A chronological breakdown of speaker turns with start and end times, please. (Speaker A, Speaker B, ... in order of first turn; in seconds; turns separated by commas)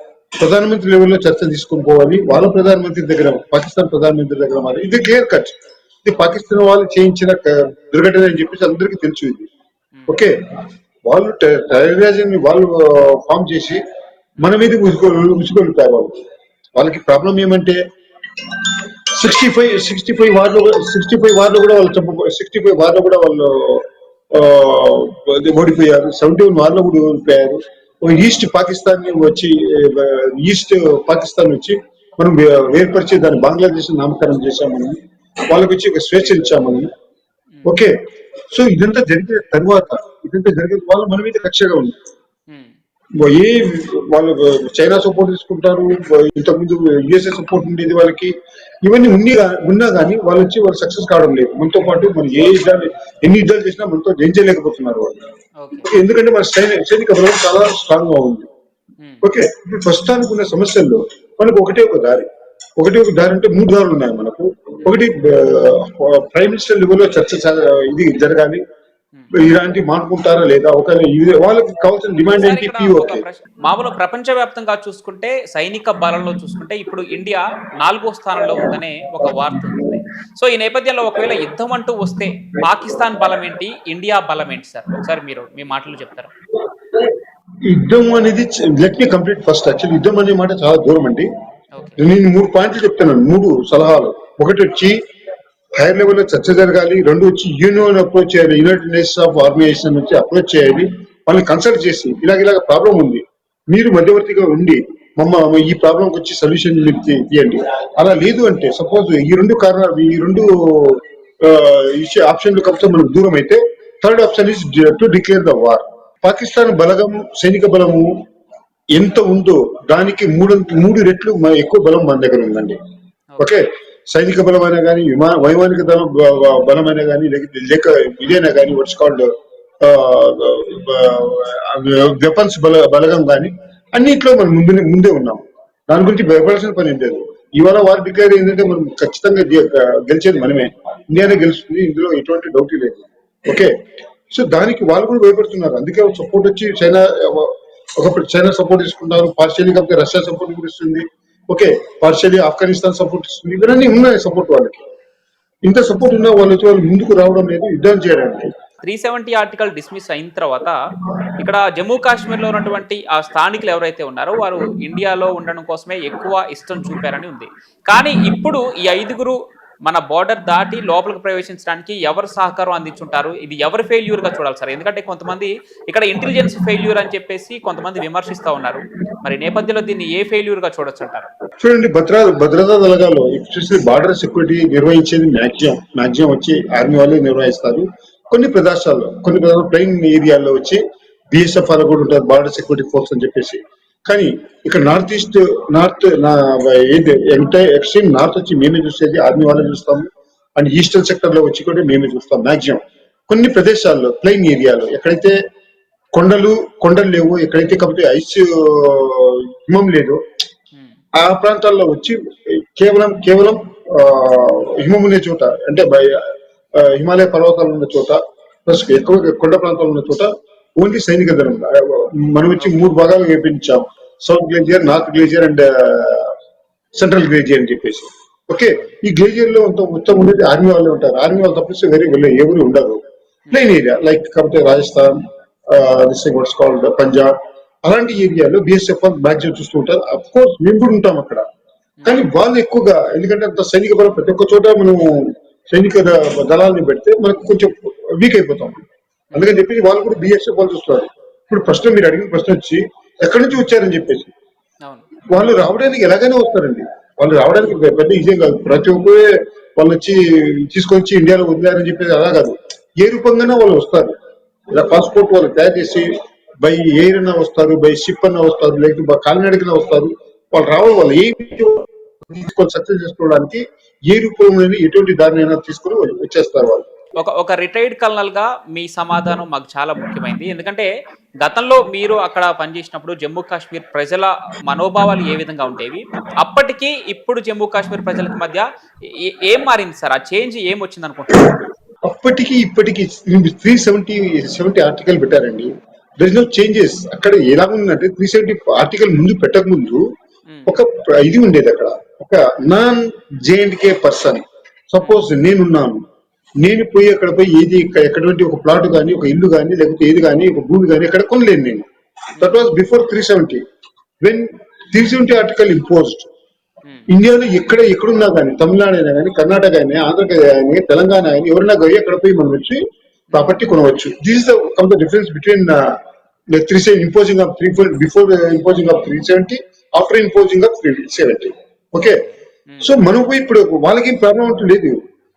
Speaker A: 0.4-9.5, Speaker A: 10.1-10.3, Speaker A: 11.1-13.8, Speaker A: 14.4-16.2, Speaker A: 16.8-17.8, Speaker A: 18.5-36.9, Speaker A: 37.6-37.9, Speaker A: 38.5-42.0, Speaker B: 42.5-42.7, Speaker A: 43.2-55.2, Speaker B: 55.6-55.9, Speaker A: 55.8-58.5, Speaker B: 59.0-59.3, Speaker A: 59.2-68.6, Speaker A: 69.3-73.2, Speaker B: 72.2-86.3, Speaker A: 87.7-91.3, Speaker B: 91.8-92.1, Speaker A: 92.0-95.0, Speaker A: 95.8-118.1, Speaker A: 118.9-122.8, Speaker B: 123.3-123.6, Speaker A: 123.4-129.3, Speaker A: 129.8-143.7, Speaker A: 144.3-154.8, Speaker A: 155.7-158.5, Speaker B: 158.8-160.8, Speaker B: 161.4-181.3, Speaker A: 181.6-190.8, Speaker A: 191.3-205.3, Speaker A: 206.1-210.2, Speaker A: 211.2-212.2, Speaker A: 212.8-226.3, Speaker B: 222.6-222.9, Speaker A: 227.0-235.2, Speaker A: 235.7-241.4, Speaker A: 242.1-248.8, Speaker A: 249.3-254.3, Speaker A: 255.3-264.1, Speaker A: 264.7-266.1, Speaker A: 266.6-276.9, Speaker B: 277.2-280.9, Speaker B: 281.4-291.6, Speaker A: 292.1-300.1, Speaker A: 300.7-306.0, Speaker A: 306.6-311.9, Speaker B: 312.4-312.6, Speaker A: 312.4-313.6, Speaker A: 314.2-316.3, Speaker A: 317.1-322.8, Speaker A: 323.3-325.8, Speaker A: 326.5-332.2, Speaker B: 332.1-333.0, Speaker A: 332.8-335.0